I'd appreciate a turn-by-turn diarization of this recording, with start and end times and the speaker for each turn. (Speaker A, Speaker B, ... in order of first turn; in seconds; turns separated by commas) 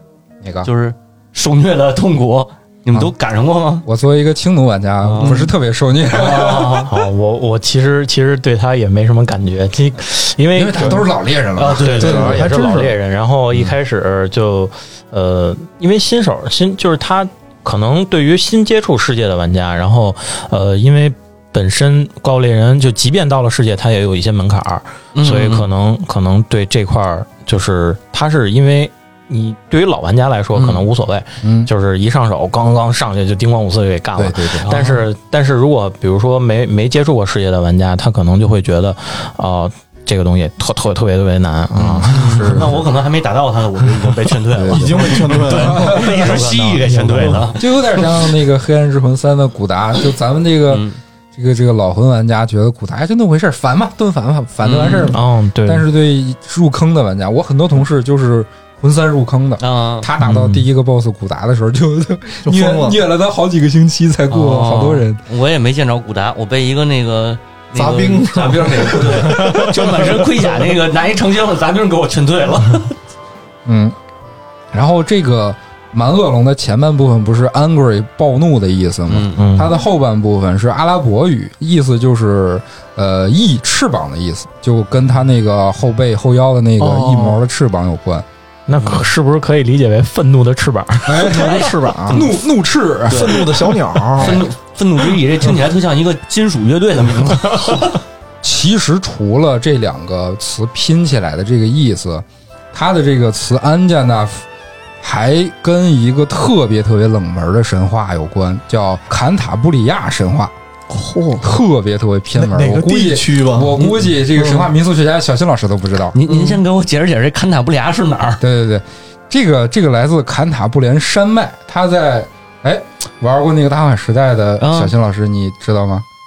Speaker A: 0.4-0.7, Speaker B: 0.6-3.9, Speaker A: 3.8-6.9, Speaker B: 5.0-5.5, Speaker C: 5.2-5.5, Speaker B: 6.1-6.9, Speaker D: 6.8-11.1, Speaker A: 10.5-12.5, Speaker B: 11.6-12.3, Speaker D: 11.6-42.7, Speaker C: 11.9-12.9, Speaker B: 25.1-25.7, Speaker B: 30.5-30.8, Speaker A: 31.4-31.7, Speaker A: 34.2-34.7, Speaker B: 34.6-35.0, Speaker B: 41.8-48.4, Speaker A: 42.1-42.9, Speaker A: 44.5-46.4, Speaker C: 44.7-46.4, Speaker D: 45.8-47.5, Speaker A: 47.6-50.8, Speaker B: 50.7-51.0, Speaker A: 51.3-65.2, Speaker B: 54.6-55.1, Speaker D: 55.0-55.8, Speaker B: 59.6-60.1, Speaker D: 60.2-60.6, Speaker C: 62.4-63.0, Speaker B: 64.3-72.9, Speaker C: 67.8-70.7, Speaker A: 73.6-73.9, Speaker A: 74.7-88.2, Speaker B: 79.1-79.5, Speaker D: 79.3-79.7, Speaker C: 86.8-87.4, Speaker D: 88.7-91.5, Speaker B: 88.8-89.0, Speaker A: 91.0-93.4, Speaker C: 91.2-92.3, Speaker B: 91.4-92.3, Speaker B: 93.1-98.0, Speaker C: 93.1-94.4, Speaker A: 94.2-94.5, Speaker D: 97.5-97.8, Speaker A: 98.4-104.5, Speaker A: 105.0-110.5, Speaker C: 110.9-111.6, Speaker A: 111.4-116.2, Speaker C: 112.3-114.7, Speaker B: 116.1-118.4, Speaker C: 116.3-116.6, Speaker A: 118.4-126.0, Speaker B: 124.6-124.9